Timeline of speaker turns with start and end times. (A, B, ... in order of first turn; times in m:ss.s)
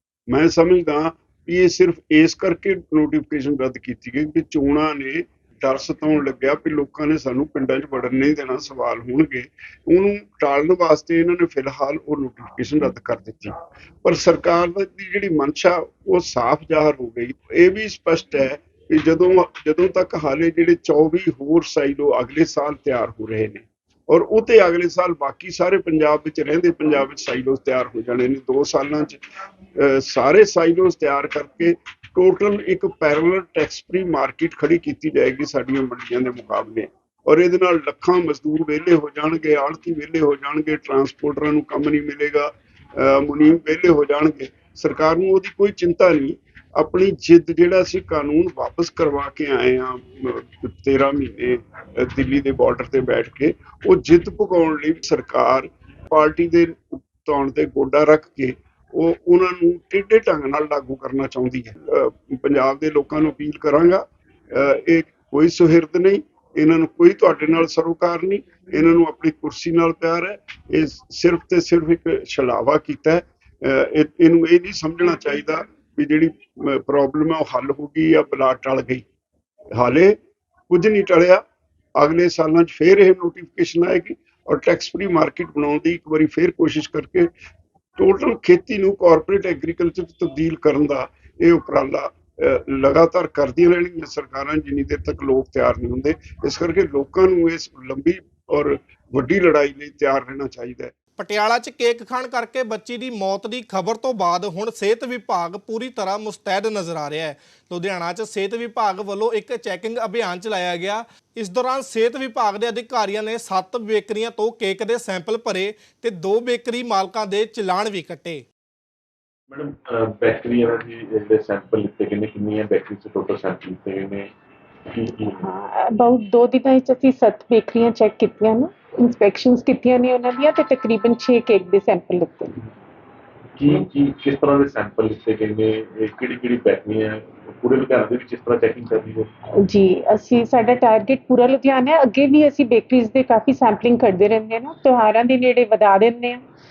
0:00.3-0:29.2 A
0:29.8-1:19.0 A
1:19.7-1:20.2 A
1:20.7-1:21.4 A
1:22.0-1:27.3 A
1:28.0-1:40.9 A
1:41.2-1:58.4 B
1:59.5-2:04.3 C
2:04.9-2:05.4 C
2:05.4-2:12.6 D
2:13.6-2:19.3 C
2:19.6-2:26.4 D